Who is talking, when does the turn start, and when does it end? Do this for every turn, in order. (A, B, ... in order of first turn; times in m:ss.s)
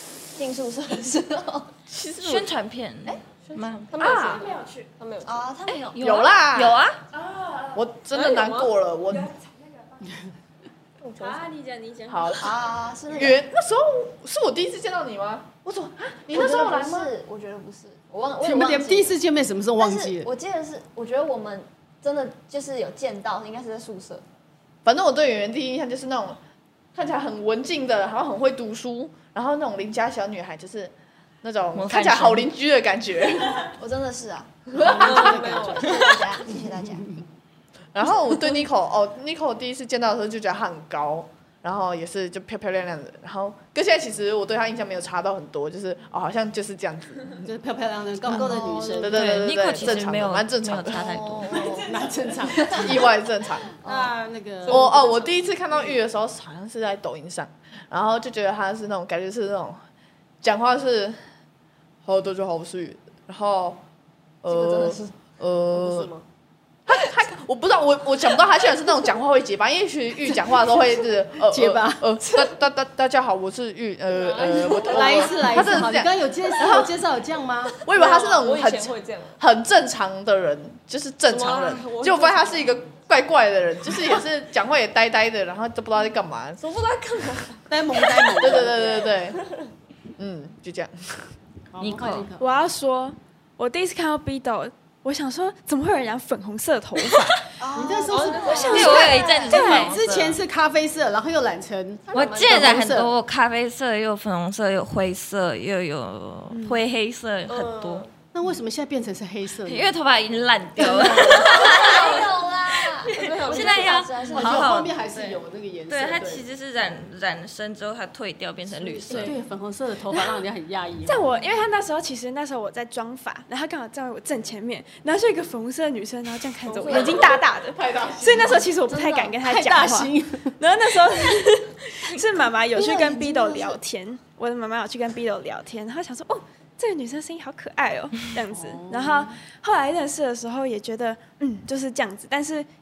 0:00.3-0:01.7 A
0:01.9-0:02.5 B
0:02.2-0:04.1 C
0:03.5-0:05.5 D
0:04.0-0:04.9 E
0:05.2-0:06.3 A
0:05.7-0:07.0 C
0:06.0-0:06.8 B
0:07.2-0:07.8 E
0:07.7-0:09.3 B
0:08.1-0:08.7 D
0:09.2-0:10.1 E
0:11.0-0:11.4 D
0:11.2-0:12.4 E
0:12.1-0:12.6 B
0:12.4-0:13.4 A
0:13.1-0:17.1 B
0:16.3-0:19.2 A
0:18.4-0:20.3 F
0:19.8-0:24.2 A
0:24.8-0:26.4 B
0:26.9-0:33.7 B
0:31.7-0:32.5 C
0:33.8-0:37.1 A
0:34.7-0:35.2 B
0:34.8-0:37.2 F
0:35.0-0:36.3 D
0:37.9-0:47.5 B
0:47.4-0:49.4 F
0:48.3-0:49.2 A
0:48.3-0:51.3 B
0:49.1-0:51.8 C
0:50.9-0:52.0 A
0:51.7-0:53.0 F
0:52.6-0:52.9 A
0:52.6-0:53.8 B
0:53.8-0:54.9 F
0:53.8-0:54.1 A
0:54.7-0:55.5 D
0:54.7-0:59.8 B
1:00.4-1:01.2 B
1:02.0-1:03.8 B
1:04.4-1:06.1 B
1:04.5-1:05.1 D
1:05.7-1:06.2 D
1:06.9-1:16.9 B
1:11.4-1:12.5 F
1:14.1-1:15.8 D
1:14.8-1:17.8 F
1:17.8-1:26.6 B
1:17.9-1:19.4 D
1:21.3-1:22.8 D
1:26.6-1:28.4 D
1:27.7-1:29.1 F
1:28.4-1:29.4 B
1:29.2-1:29.7 D
1:30.2-1:31.3 B
1:31.7-1:32.4 F
1:31.8-1:32.3 C
1:32.4-1:37.4 E
1:37.6-1:39.6 A
1:37.7-1:43.1 F
1:38.1-1:39.3 D
1:38.4-1:39.9 E
1:38.6-1:40.4 C
1:42.1-1:42.6 D
1:42.1-1:48.0 C
1:46.5-1:46.8 E
1:47.5-1:48.1 D
1:48.3-1:49.9 F
1:49.6-1:59.4 C
1:51.0-1:54.7 A
1:51.2-1:52.3 D
1:53.1-1:54.2 D
1:54.3-1:56.4 F
1:58.9-2:01.3 F
2:01.0-2:22.7 E
2:06.7-2:07.2 F
2:06.9-2:08.7 B
2:08.9-2:10.6 F
2:12.8-2:13.7 F
2:18.5-2:19.4 F